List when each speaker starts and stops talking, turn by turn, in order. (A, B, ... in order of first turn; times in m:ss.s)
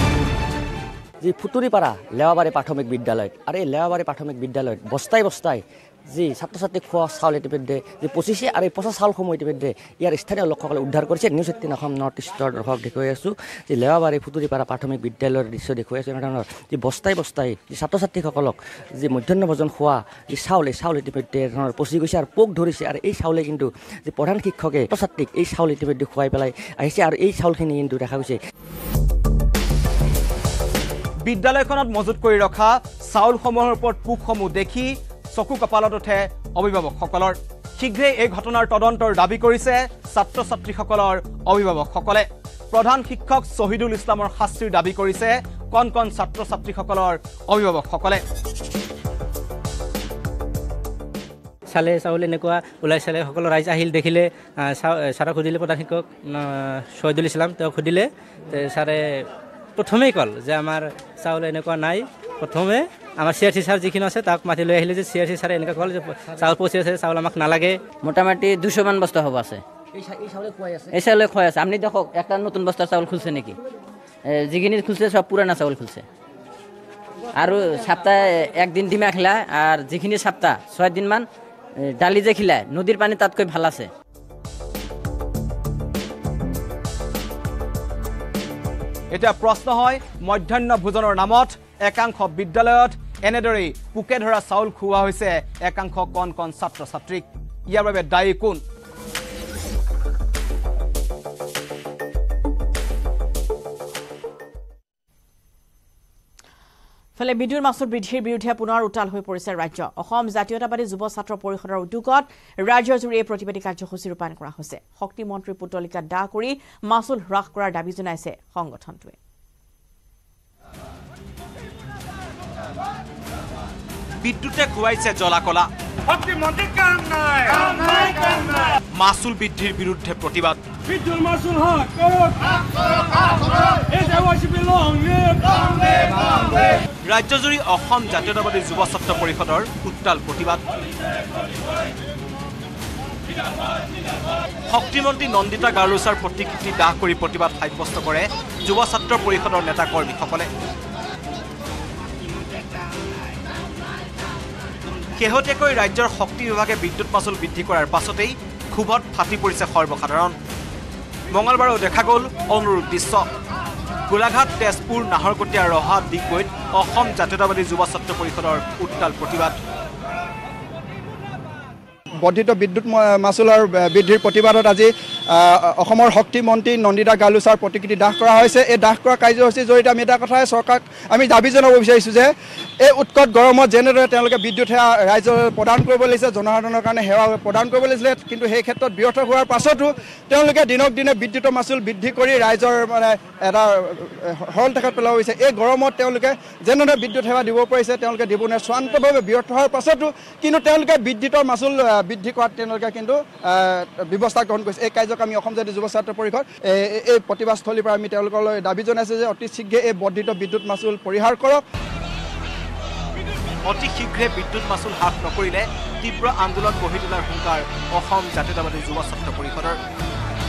0:01.2-0:28.4 A
0:31.2-0:48.2 B
0:51.7-0:56.4 C
0:57.0-0:58.9 C
0:57.2-0:57.9 D
0:59.8-1:07.8 C
1:03.4-1:03.9 D
1:06.3-1:06.7 D
1:08.0-1:09.6 D
1:10.9-1:13.6 D
1:14.4-1:16.0 D
1:17.4-1:21.2 D
1:22.0-1:23.9 D
1:29.1-1:38.6 B
1:47.2-1:59.2 E
2:04.2-2:05.7 B
2:08.9-2:10.6 B
2:17.0-2:20.6 B
2:24.7-2:30.5 B
2:35.2-2:40.4 B
2:41.3-2:43.2 B
2:44.1-2:49.6 B
2:52.2-3:02.3 F
3:02.8-3:31.6 F
3:33.6-3:39.8 B